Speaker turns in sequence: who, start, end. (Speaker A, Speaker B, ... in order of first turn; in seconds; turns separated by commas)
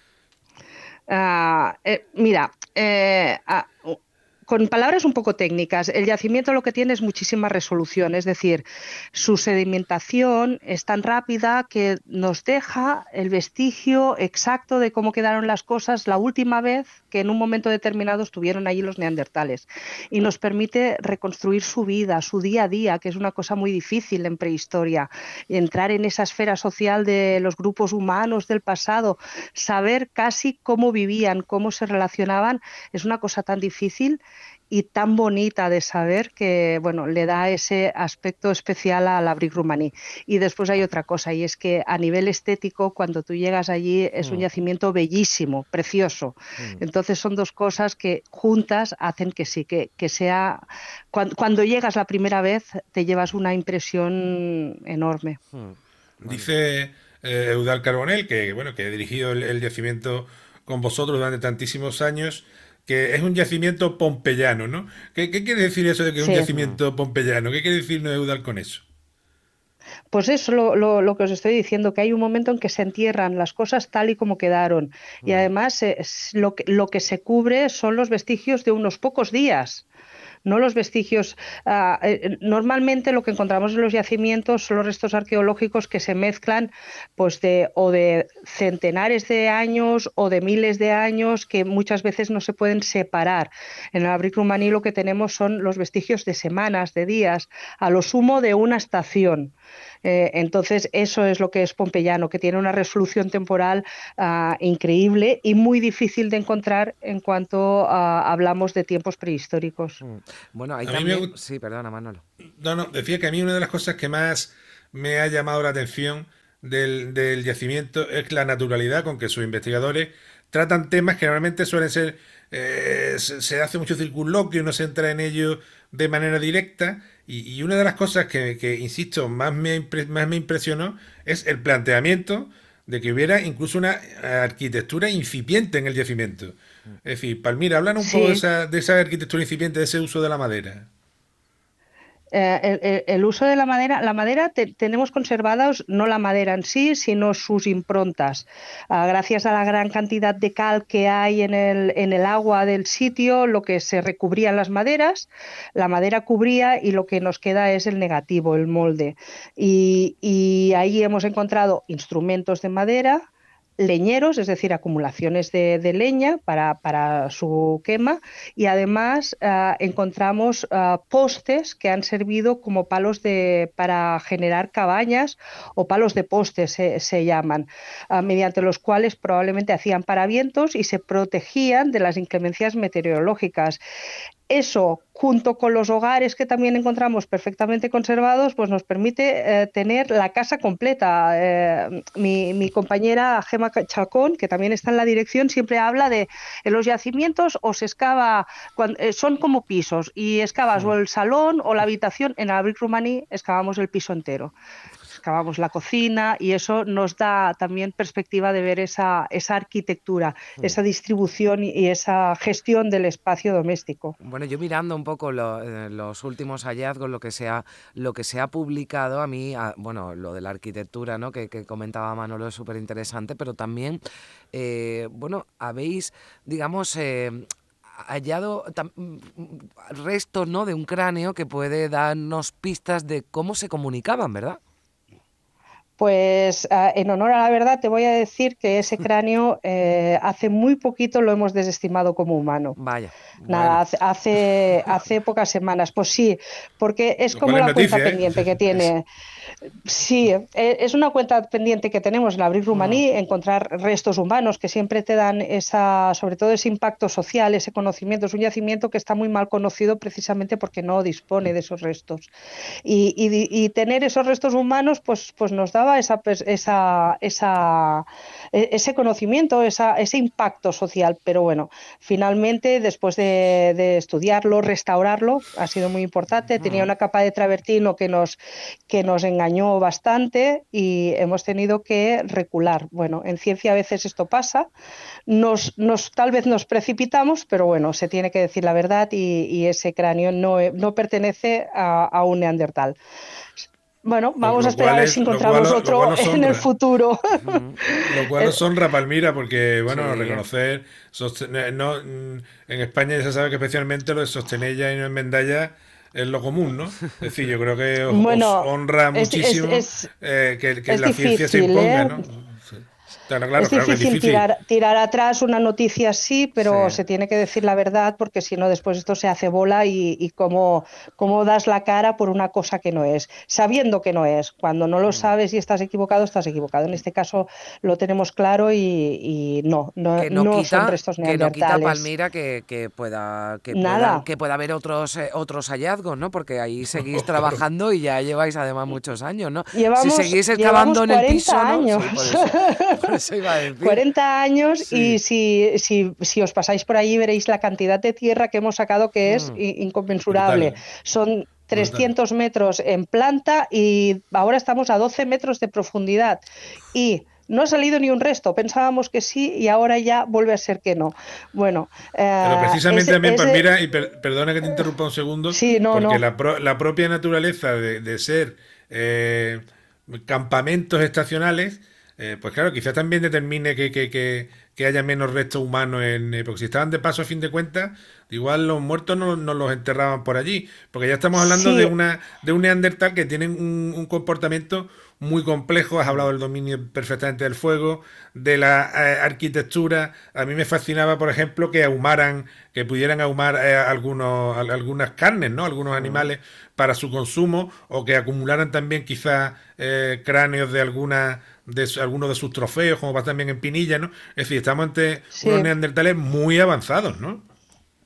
Speaker A: 1.1-55.4, Speaker B: 44.2-44.4, Speaker B: 55.5-56.5, Speaker C: 56.2-68.8, Speaker A: 66.2-66.5, Speaker B: 66.5-66.8, Speaker A: 70.1-79.8, Speaker B: 75.2-75.5, Speaker A: 80.4-110.0, Speaker B: 110.0-112.2, Speaker C: 110.8-111.3, Speaker C: 112.6-140.9, Speaker A: 138.0-138.4, Speaker A: 142.3-163.2, Speaker A: 163.8-183.8, Speaker A: 184.5-204.5, Speaker A: 205.1-214.2, Speaker B: 214.2-224.0, Speaker B: 224.5-227.4, Speaker B: 228.0-234.6, Speaker A: 236.0-242.8, Speaker B: 242.8-243.8, Speaker A: 243.5-249.1, Speaker C: 247.3-248.9, Speaker A: 249.8-262.3, Speaker B: 252.7-253.0, Speaker A: 262.8-284.7, Speaker B: 276.6-276.9, Speaker A: 285.3-292.9, Speaker A: 293.6-298.6, Speaker C: 294.4-296.7, Speaker B: 297.3-297.8, Speaker C: 298.0-314.5, Speaker B: 299.9-300.4, Speaker A: 308.1-310.1, Speaker A: 310.9-312.2, Speaker A: 313.6-332.1, Speaker B: 316.6-317.0, Speaker B: 325.1-325.3, Speaker B: 330.2-344.0, Speaker A: 333.7-334.2, Speaker C: 336.9-337.6, Speaker A: 339.7-343.0, Speaker A: 343.8-363.6, Speaker C: 344.9-345.2, Speaker B: 349.2-349.6, Speaker C: 350.3-350.8, Speaker C: 351.7-352.1, Speaker C: 362.4-407.4, Speaker A: 365.5-366.2, Speaker A: 381.3-381.9, Speaker B: 395.9-396.3, Speaker A: 405.3-405.7